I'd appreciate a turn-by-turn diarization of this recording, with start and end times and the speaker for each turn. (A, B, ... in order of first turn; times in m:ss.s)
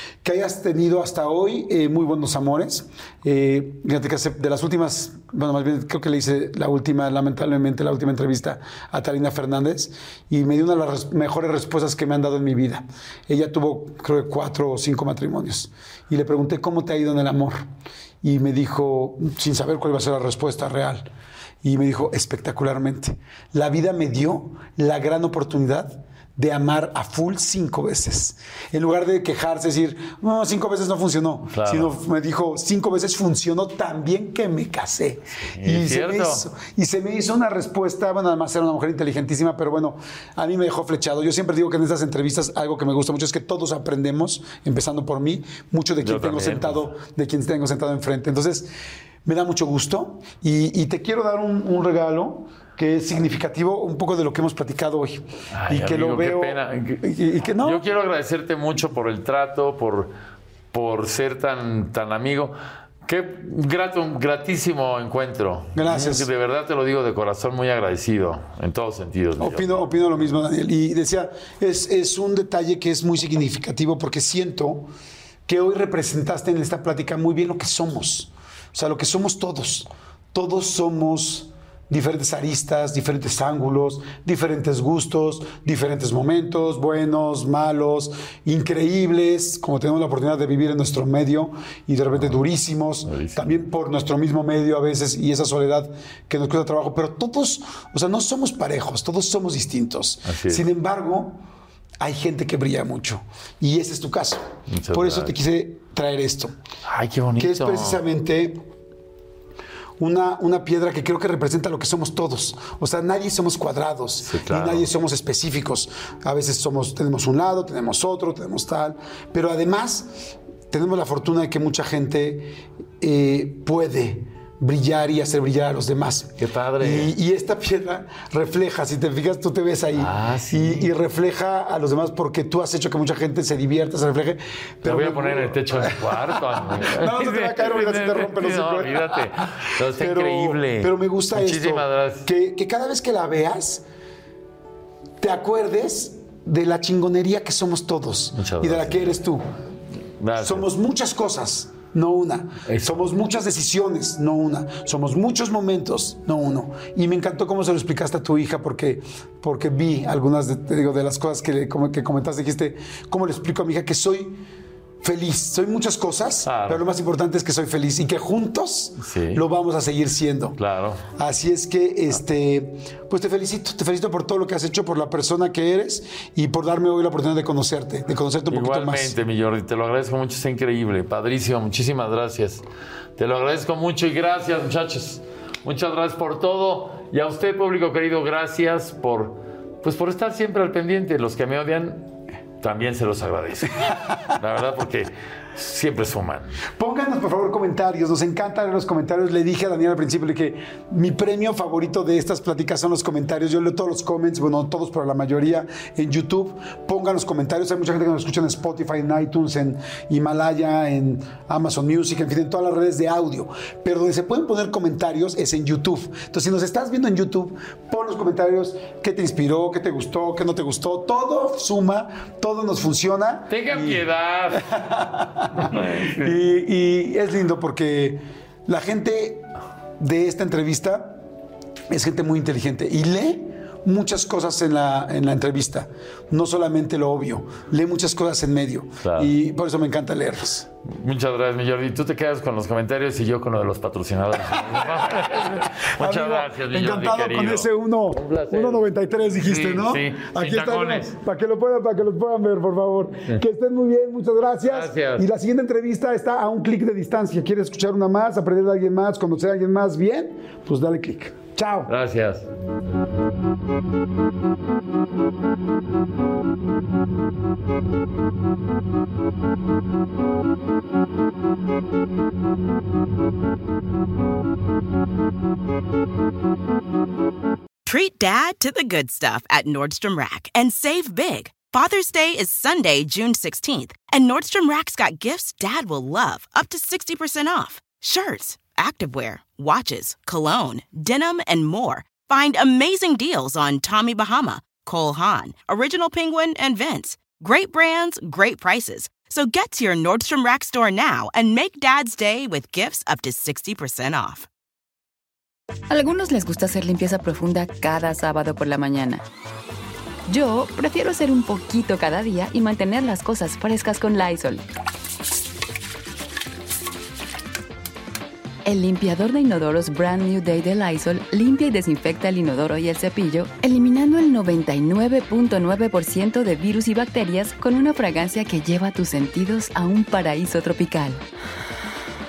0:00.2-0:17.7 A
0:18.2-0:21.1 A
0:21.6-0:48.7 A
0:31.5-0:32.0 B
0:35.4-0:36.5 B
0:46.0-0:46.9 B
0:49.2-0:57.8 A
0:55.5-1:00.1 B
1:00.7-1:02.5 B
1:03.1-1:09.9 B
1:05.8-1:06.3 A
1:09.4-1:14.9 A
1:15.5-1:41.4 A
1:32.1-1:32.4 B
1:33.0-1:33.6 B
1:40.2-1:40.7 B
1:42.0-1:46.6 A
1:44.7-1:45.4 B
1:46.8-1:48.0 B
1:47.4-1:48.6 A
1:50.0-2:19.3 A
1:54.2-1:54.9 B
2:06.4-2:07.1 B
2:09.9-2:10.9 B
2:14.8-2:22.3 B
2:19.9-2:23.8 A
2:25.2-2:29.4 A
2:28.4-2:29.2 B
2:30.2-2:30.7 B
2:30.4-2:44.4 A
2:32.7-2:33.1 B
2:45.0-2:50.6 A
2:46.4-2:46.8 B
2:49.0-2:49.4 B
2:50.6-2:51.0 B
2:51.2-2:59.2 A
2:58.5-3:02.6 B
3:03.2-3:16.6 B
3:16.8-3:49.5 A
3:43.5-3:44.7 B
3:45.5-3:46.4 B
3:50.0-3:51.2 A
3:51.9-4:00.7 A
3:59.0-3:59.3 B
4:00.8-4:08.9 B
4:04.5-4:21.9 A
4:09.4-4:11.1 B
4:14.6-4:15.3 B
4:21.9-4:22.5 B
4:37.8-5:04.5 C
5:05.9-5:09.2 D
5:10.3-5:14.6 D
5:18.7-5:31.2 D